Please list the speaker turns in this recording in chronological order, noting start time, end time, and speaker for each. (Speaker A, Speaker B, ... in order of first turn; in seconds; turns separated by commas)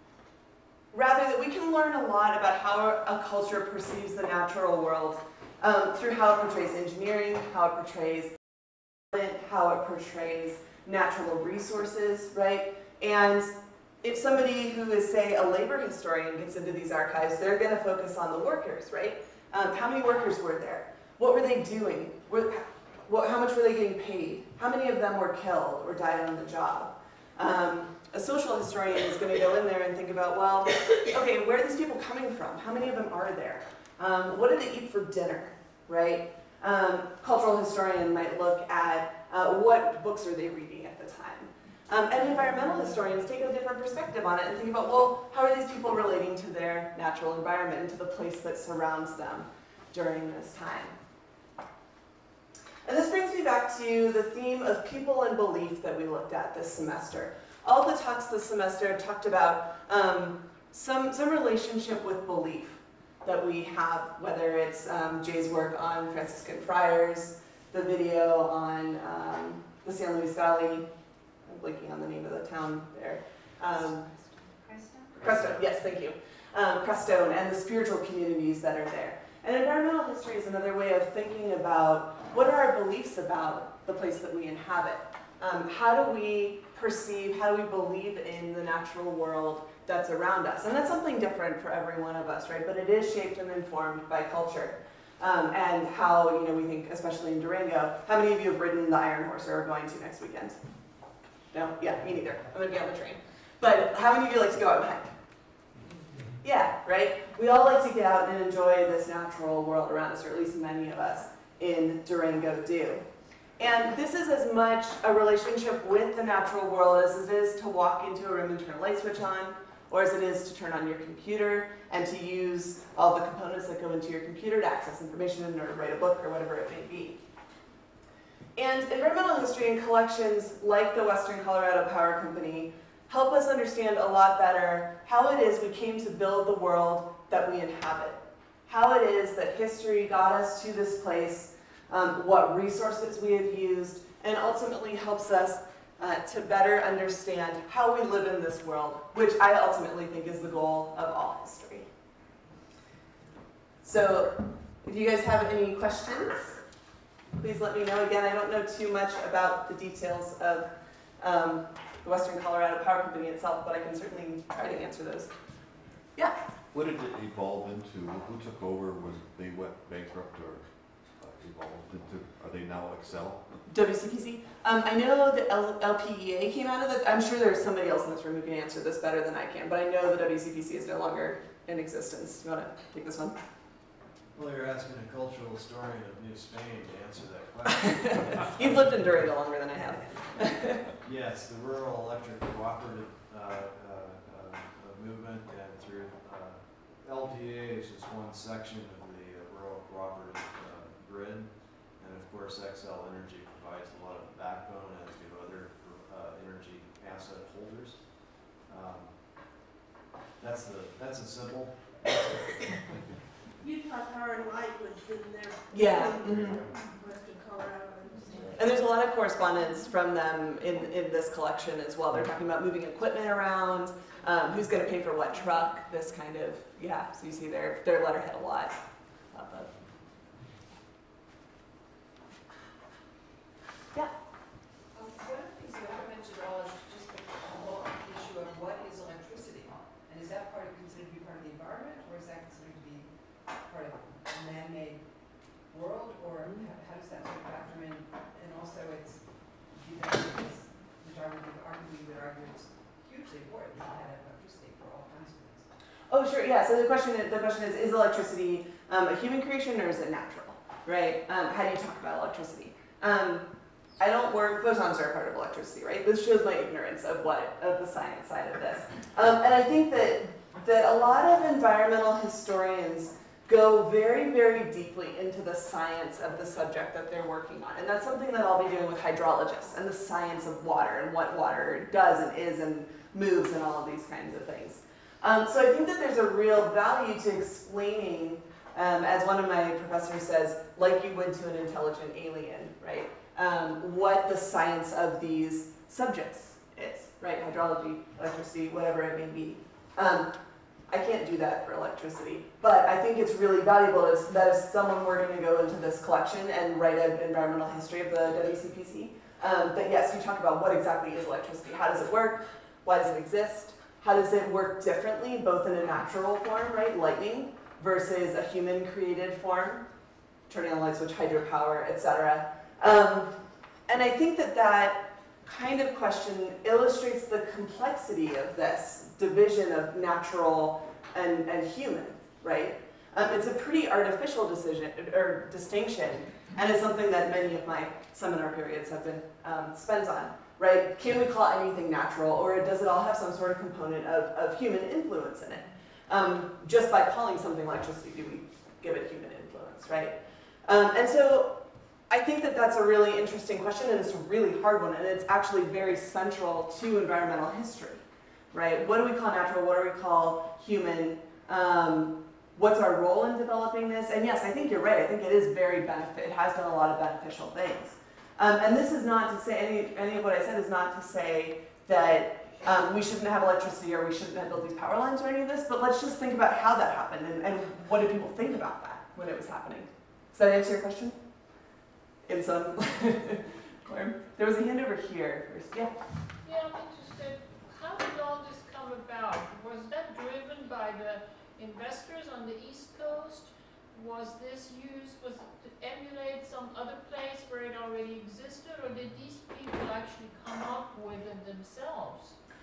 Speaker A: 0.9-8.3, Speaker A: 9.1-13.5, Speaker A: 14.0-51.0, Speaker A: 52.8-70.9, Speaker A: 71.5-74.1, Speaker B: 74.6-75.1, Speaker A: 75.2-100.6, Speaker A: 101.5-105.1, Speaker A: 106.4-113.0, Speaker A: 113.6-127.2, Speaker A: 128.6-151.9, Speaker A: 153.8-156.6, Speaker A: 157.4-160.7, Speaker A: 161.2-165.3, Speaker C: 166.7-170.6, Speaker C: 171.2-173.4, Speaker A: 173.7-183.4, Speaker D: 184.3-188.5, Speaker A: 187.8-190.9, Speaker D: 191.0-208.0, Speaker D: 208.6-209.1, Speaker D: 210.4-212.9, Speaker E: 213.6-218.6, Speaker A: 215.7-216.6, Speaker D: 216.3-216.7, Speaker A: 218.6-228.8, Speaker A: 229.3-229.7, Speaker B: 234.9-245.1, Speaker B: 245.7-255.7, Speaker A: 256.1-263.4, Speaker A: 264.0-300.3, Speaker A: 300.9-319.8, Speaker A: 320.5-323.3, Speaker A: 323.9-350.1, Speaker A: 350.6-351.5, Speaker A: 352.1-358.0, Speaker A: 358.5-381.2, Speaker A: 382.3-385.9, Speaker F: 386.4-402.4